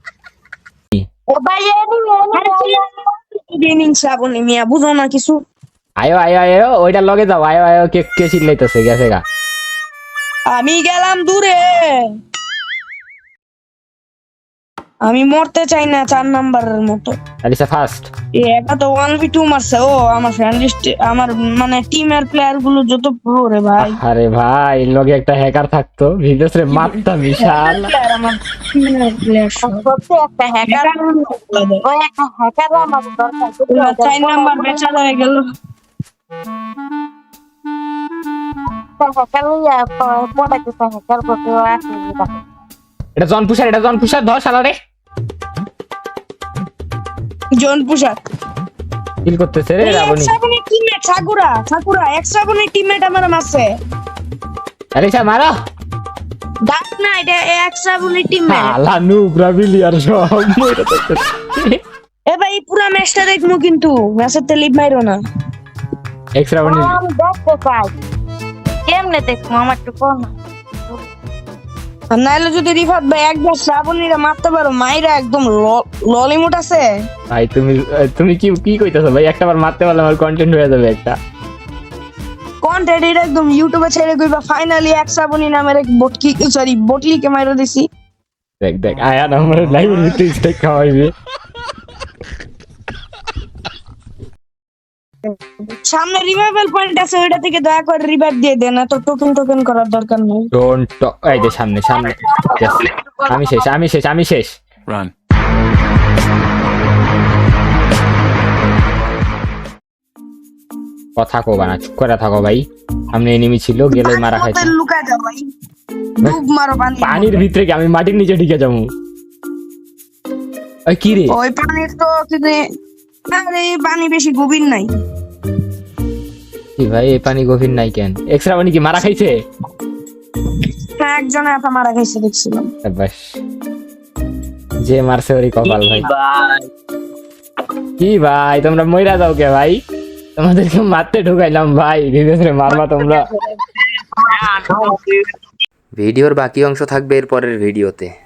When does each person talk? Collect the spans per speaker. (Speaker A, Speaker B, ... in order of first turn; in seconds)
Speaker A: 1.3-2.8, 29.6-30.9, 31.8-34.9, 39.0-42.4, 66.6-68.0, 68.9-70.4, 102.0-103.7, 144.5-145.0
Speaker B: 2.3-5.4, 10.5-12.1, 15.0-17.2, 18.4-24.0, 27.4-29.9, 30.7-31.9, 33.7-35.4, 47.6-48.2, 49.8-53.7, 56.7-58.8, 62.3-65.2, 72.1-76.9, 82.6-87.9, 95.7-100.5, 113.9-115.5, 116.2-117.4, 121.3-122.6, 123.3-124.9, 131.0-132.7
Speaker C: 6.0-9.2, 17.4-18.1, 23.8-27.9, 43.2-44.8, 49.2-50.3, 55.0-55.5, 58.5-61.8, 66.4-67.0, 77.3-81.2, 88.6-91.1, 100.5-104.5, 111.2-114.7, 117.0-118.9, 120.9-121.4, 126.8-129.3, 132.8-133.4, 134.8-136.1, 138.0-139.8, 140.4-143.3, 146.0-148.1